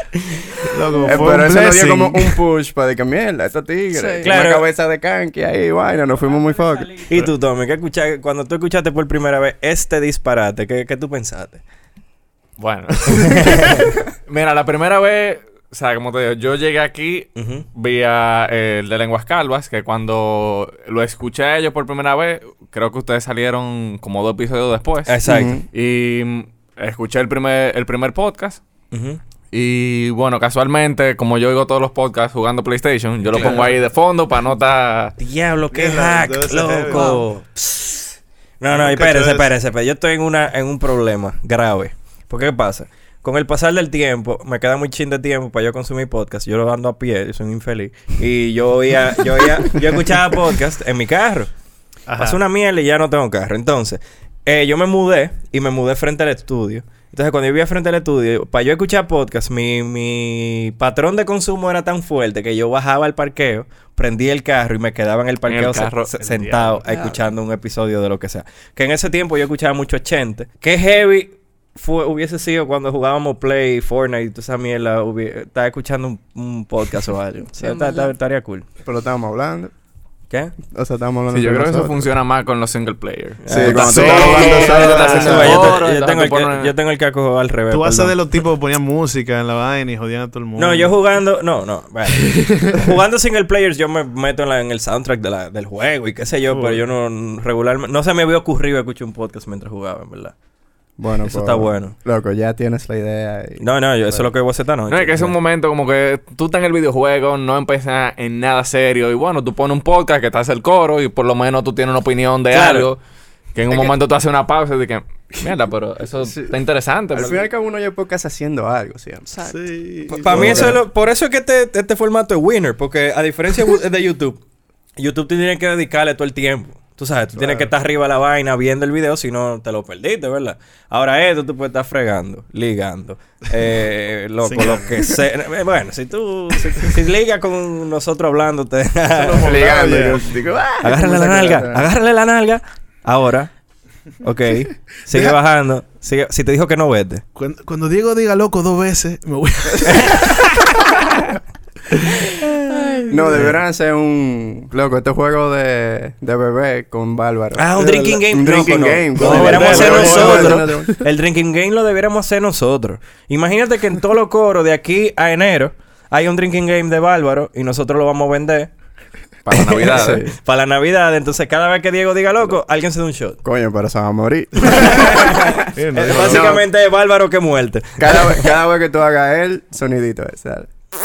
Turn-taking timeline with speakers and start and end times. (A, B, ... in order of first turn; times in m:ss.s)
0:00.7-0:02.4 A
0:01.0-0:07.0 B
0:03.9-0:04.3 C
0:04.2-0:04.6 D
0:06.8-0:11.6 D
0:12.6-0:13.6 E
0:13.2-0:13.9 D
0:14.3-0:25.1 E
0:17.4-0:17.6 D
0:25.0-0:25.6 D
0:25.2-0:25.6 B
0:25.7-0:28.6 E
0:28.9-0:29.2 D
0:29.5-0:35.1 E
0:33.3-0:33.7 A
0:35.2-0:51.5 D
0:35.7-0:37.2 A
0:36.9-0:37.2 C
0:38.7-0:39.5 A
0:52.1-0:52.4 A
0:52.2-1:18.6 D
1:05.5-1:06.1 E
1:06.2-1:06.8 A
1:06.9-1:07.2 C
1:17.6-1:18.1 C
1:18.8-1:19.7 B
1:20.7-1:22.1 B
1:21.3-1:26.7 E
1:23.4-1:28.2 D
1:23.5-1:25.8 B
1:23.8-1:25.7 A
1:27.7-1:31.0 A
1:30.6-1:40.3 D
1:36.5-1:36.8 A
1:41.0-1:44.3 B
1:41.2-1:41.9 D
1:43.6-1:45.3 D
1:44.9-1:53.0 E
1:52.5-1:52.9 D
1:53.5-1:57.5 E
1:56.2-1:56.5 B
1:57.1-1:59.3 B
1:59.3-1:59.6 C
1:59.4-2:00.8 A
2:00.1-2:04.4 D
2:00.3-2:00.8 B
2:05.0-2:19.5 D
2:07.3-2:07.7 A
2:14.4-2:15.2 A
2:19.1-2:20.2 A
2:19.2-2:21.8 B
2:20.8-2:23.5 D
2:24.2-2:27.2 D
2:25.1-2:25.4 A
2:27.4-2:30.5 A
2:29.9-2:30.2 D
2:32.7-2:33.3 C
2:33.1-2:41.0 B
2:37.6-2:48.7 D
2:37.8-2:41.0 A
2:49.4-2:50.2 E
2:49.9-2:50.3 B
2:50.4-2:53.4 D
2:53.4-2:56.6 B
2:54.6-2:55.2 A
2:54.7-2:58.5 D
2:55.7-2:56.6 A
2:58.0-3:00.7 B